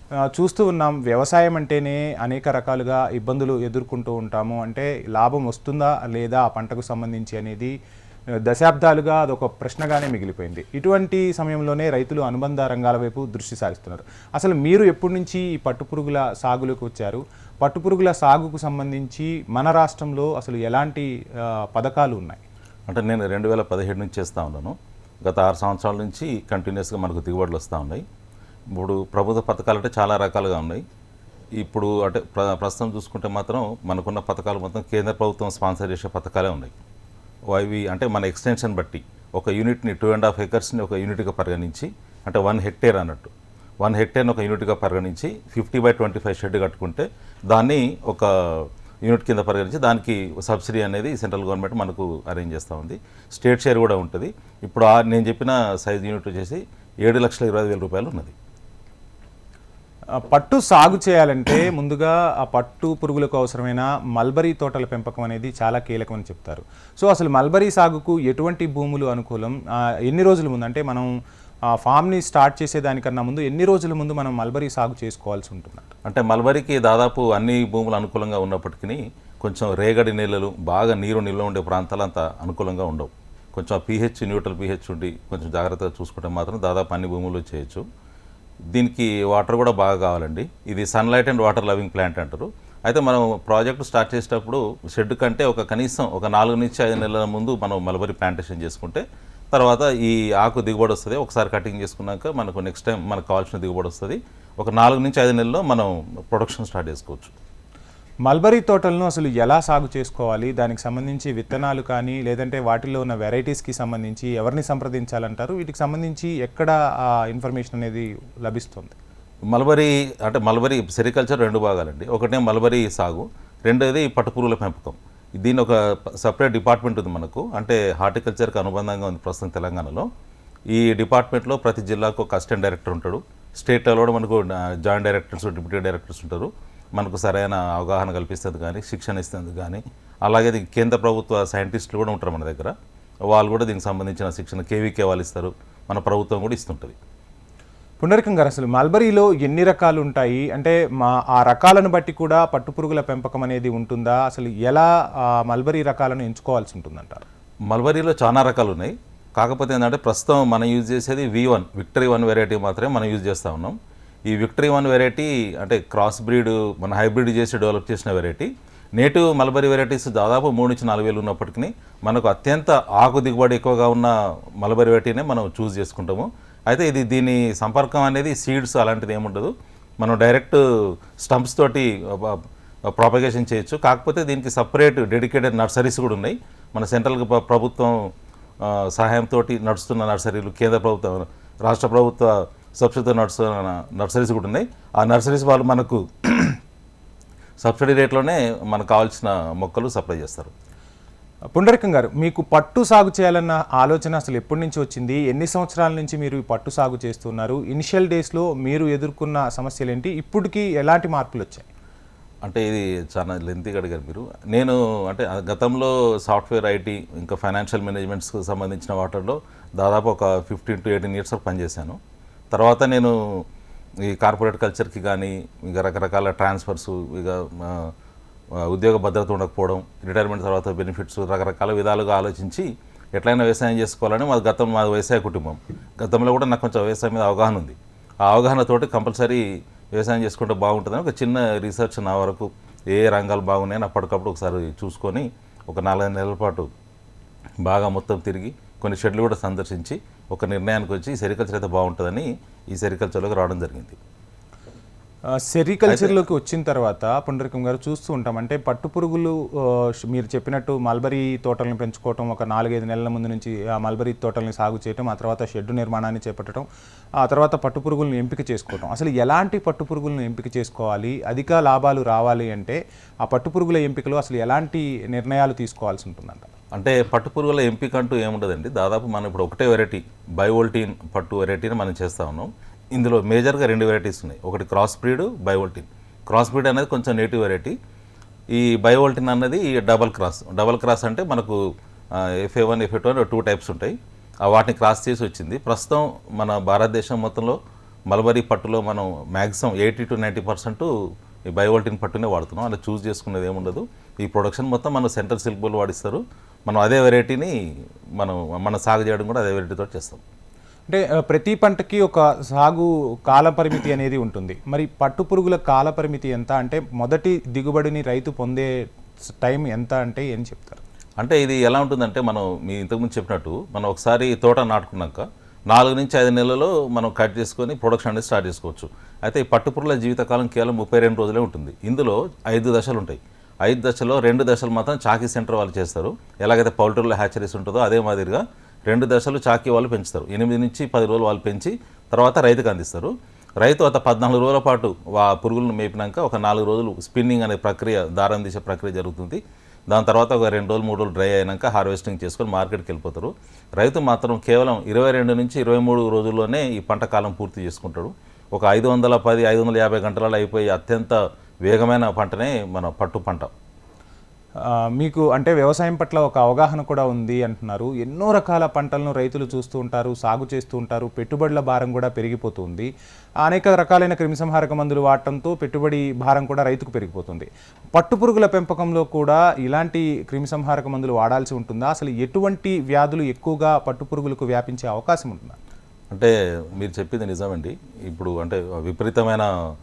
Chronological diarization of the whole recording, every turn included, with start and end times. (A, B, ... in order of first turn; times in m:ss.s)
0:00.3-0:07.7 A
0:08.5-0:21.1 A
0:21.7-0:22.4 A
0:22.9-0:28.0 B
0:28.7-0:30.8 B
0:31.6-0:36.8 B
0:37.5-0:58.3 B
1:00.1-1:11.1 A
1:11.8-1:15.9 A
1:16.0-1:27.8 B
1:28.7-1:47.3 B
1:48.3-1:59.0 A
1:59.5-2:10.1 B
2:10.7-2:22.8 B
2:23.3-2:27.0 B
2:28.0-2:37.2 A
2:37.7-2:43.8 B
2:44.3-3:00.6 B
3:01.2-3:08.1 B
3:08.6-3:16.6 B
3:17.6-3:20.5 B
3:21.6-3:31.7 A
3:32.4-3:42.0 B
3:42.5-3:43.2 B
3:44.1-3:47.9 B
3:48.6-3:59.4 B
4:00.0-4:06.7 B
4:07.6-4:14.0 B
4:15.4-4:26.7 A
4:15.9-4:16.2 B
4:27.2-4:36.5 A
4:36.7-4:47.8 B
4:48.5-4:51.6 B
4:52.2-4:57.6 B
4:58.1-5:00.9 B
5:01.5-5:07.5 B
5:08.2-5:10.2 B
5:10.9-5:18.7 A
5:19.2-5:20.8 A
5:21.2-6:03.5 B
6:04.6-6:12.9 A
6:13.4-6:25.6 A
6:26.1-6:29.5 B